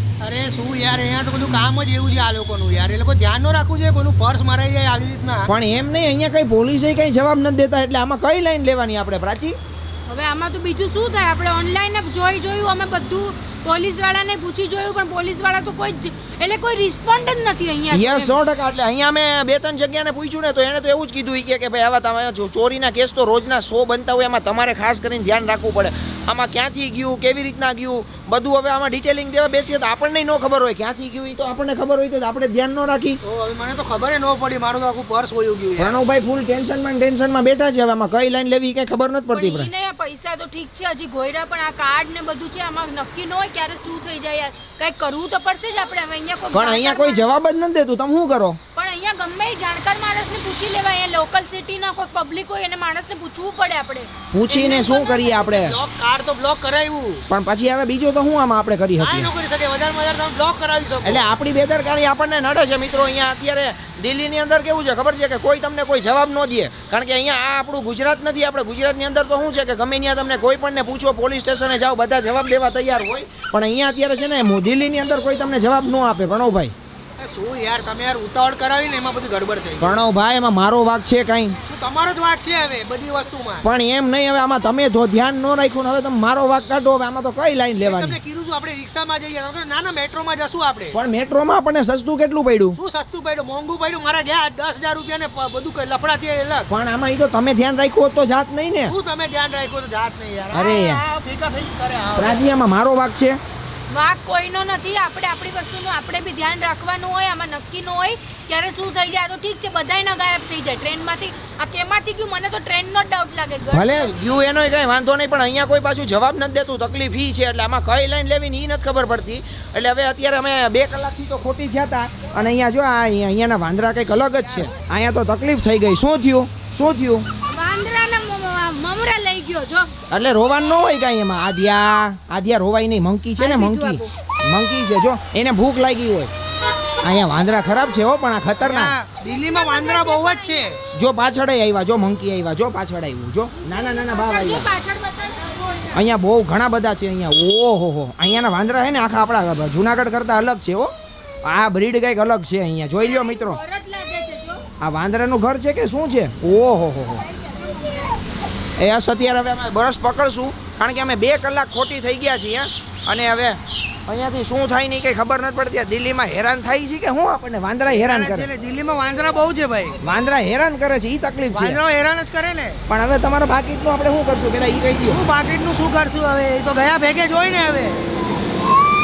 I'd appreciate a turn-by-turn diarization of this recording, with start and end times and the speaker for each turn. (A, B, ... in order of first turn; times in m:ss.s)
0:00.2-0:05.5 A
0:05.5-0:09.6 B
0:10.1-0:18.4 C
0:17.9-0:33.2 B
0:33.2-0:36.0 A
0:35.8-0:39.7 B
0:39.3-0:47.4 C
0:46.5-0:48.6 B
0:48.8-0:55.4 C
0:54.3-0:55.8 B
0:54.5-0:54.8 A
0:55.4-0:57.2 A
0:57.3-0:59.3 B
0:59.0-1:01.2 A
1:01.0-1:16.7 B
1:17.2-1:20.0 A
1:19.8-1:21.6 B
1:21.7-1:23.7 A
1:23.6-1:28.2 B
1:27.8-1:31.0 A
1:30.9-1:32.8 B
1:32.8-1:36.7 A
1:36.7-1:38.9 B
1:38.8-1:42.5 A
1:40.5-1:41.0 B
1:42.2-1:43.4 B
1:43.9-1:54.2 C
1:53.7-2:07.2 B
2:07.5-2:09.9 C
2:10.1-2:16.3 B
2:13.4-2:14.1 C
2:17.0-2:19.0 B
2:18.6-2:20.8 A
2:19.2-2:20.8 C
2:20.9-2:24.7 B
2:23.7-2:26.0 C
2:25.9-2:30.9 B
2:31.4-2:33.6 B
2:33.0-2:34.6 C
2:34.8-2:37.2 B
2:37.2-2:38.2 C
2:38.8-2:48.5 B
2:47.9-2:50.0 A
2:50.0-2:51.8 B
2:51.5-2:52.8 A
2:52.9-2:55.2 B
2:55.1-2:58.0 A